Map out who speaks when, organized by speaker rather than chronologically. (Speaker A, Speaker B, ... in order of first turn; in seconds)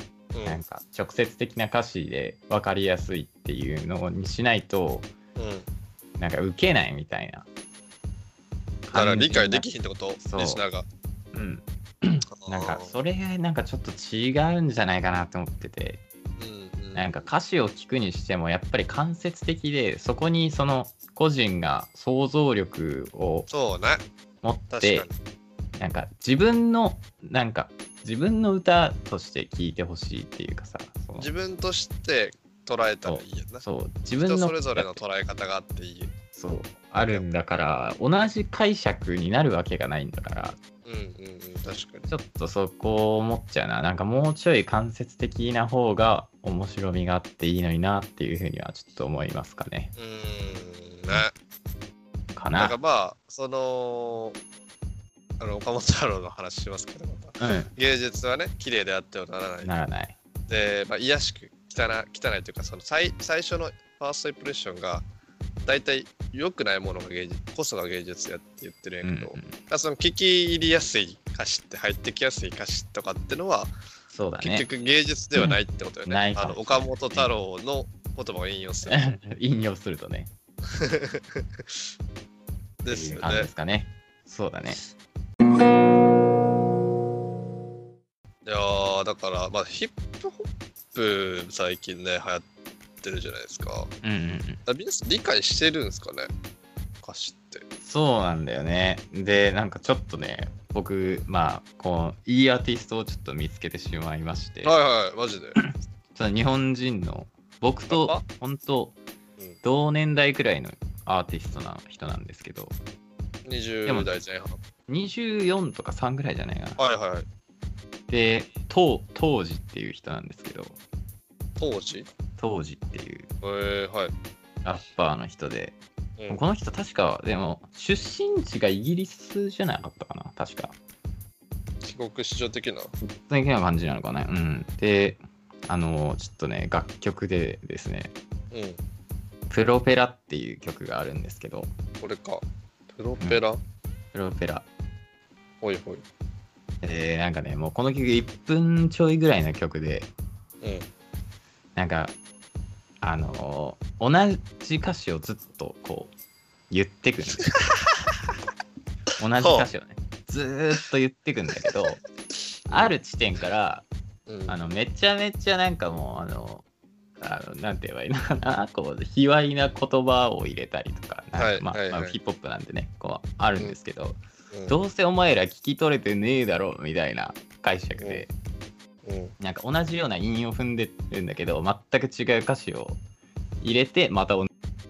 Speaker A: 0.3-0.6, 5.3-5.7, 8.9-10.9, 12.4-13.0, 16.4-17.1, 23.5-24.0, 24.7-25.1, 31.2-33.6, 34.2-36.1, 37.0-37.3, 40.4-42.1, 50.0-51.3, 52.5-54.4, 55.4-59.7, 60.5-65.0, 65.7-73.7, 74.4-79.2, 80.7-81.8, 82.8-83.5, 88.4-92.5, 93.0-93.9, 94.7-96.3, 97.0-97.6, 104.6-105.6, 107.9-108.2, 113.5-114.6, 116.8-117.2, 121.6-122.1, 123.4-124.1, 131.8-132.9, 138.5-138.8, 142.0-143.6, 145.6-146.0, 150.6-150.9, 159.4-159.7, 164.3-164.6, 171.4-172.2, 178.0-178.2, 179.0-179.3
Speaker B: 0.5-5.1, 6.2-7.5, 8.9-9.7, 10.2-10.6, 11.3-16.0, 16.9-23.5, 24.4-25.1, 25.8-31.3, 33.0-34.9, 36.4-40.6, 42.1-49.9, 52.3-52.8, 57.4-57.7, 59.6-60.1, 69.0-69.5, 74.1-74.7, 75.3-77.3, 78.8-80.3, 82.9-84.8, 94.0-94.6, 97.8-104.7, 105.5-109.0, 109.6-112.8, 114.9-116.8, 118.1-120.8, 122.4-123.3, 124.6-125.8, 126.3-130.7, 133.0-138.1, 139.5-141.7, 144.1-144.7, 146.8-150.1, 151.8-152.2, 153.0-156.1, 156.7-157.7, 159.2-162.0, 162.7-163.9, 164.5-166.6, 167.2-178.3, 179.4-183.0, 183.6-184.5